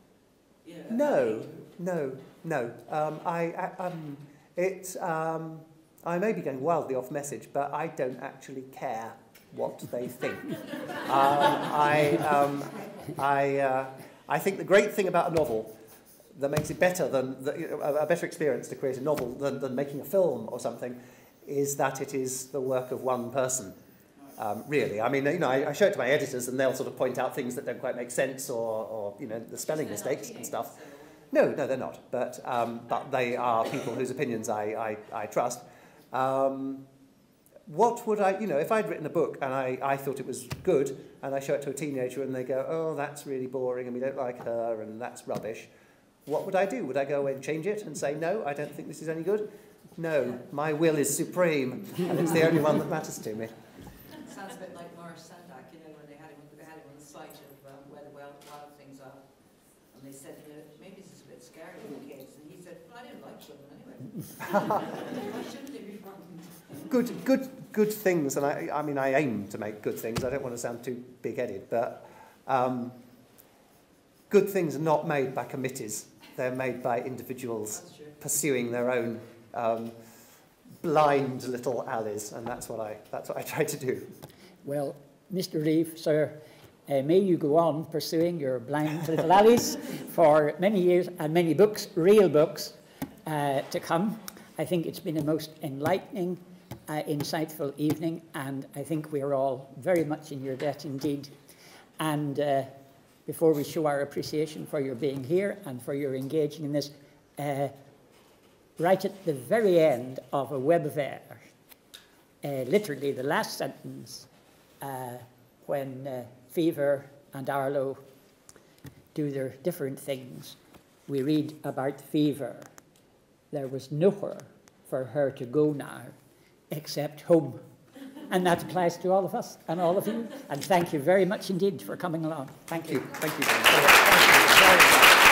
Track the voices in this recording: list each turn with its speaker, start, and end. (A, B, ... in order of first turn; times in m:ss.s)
0:00.6-0:01.6 A
0:00.9-0:15.8 B
0:16.3-0:23.8 B
0:24.4-0:30.8 B
0:29.5-0:31.4 A
0:31.3-0:36.8 B
0:33.3-0:34.0 A
0:37.6-0:45.7 B
0:46.2-0:53.6 B
0:54.2-1:06.9 A
1:04.5-1:04.8 B
1:06.8-1:13.0 B
1:14.3-1:20.0 B
1:17.7-1:18.2 A
1:20.8-1:24.1 B
1:24.6-1:41.3 C
1:42.0-1:42.7 C
1:43.2-1:47.7 C
1:48.8-1:51.4 C
1:52.4-1:54.3 C
1:54.8-1:58.0 C
1:59.1-2:02.7 C
2:03.5-2:06.1 C
2:06.7-2:07.6 C
2:08.2-2:13.1 C
2:12.7-2:15.1 B
2:13.8-2:14.8 C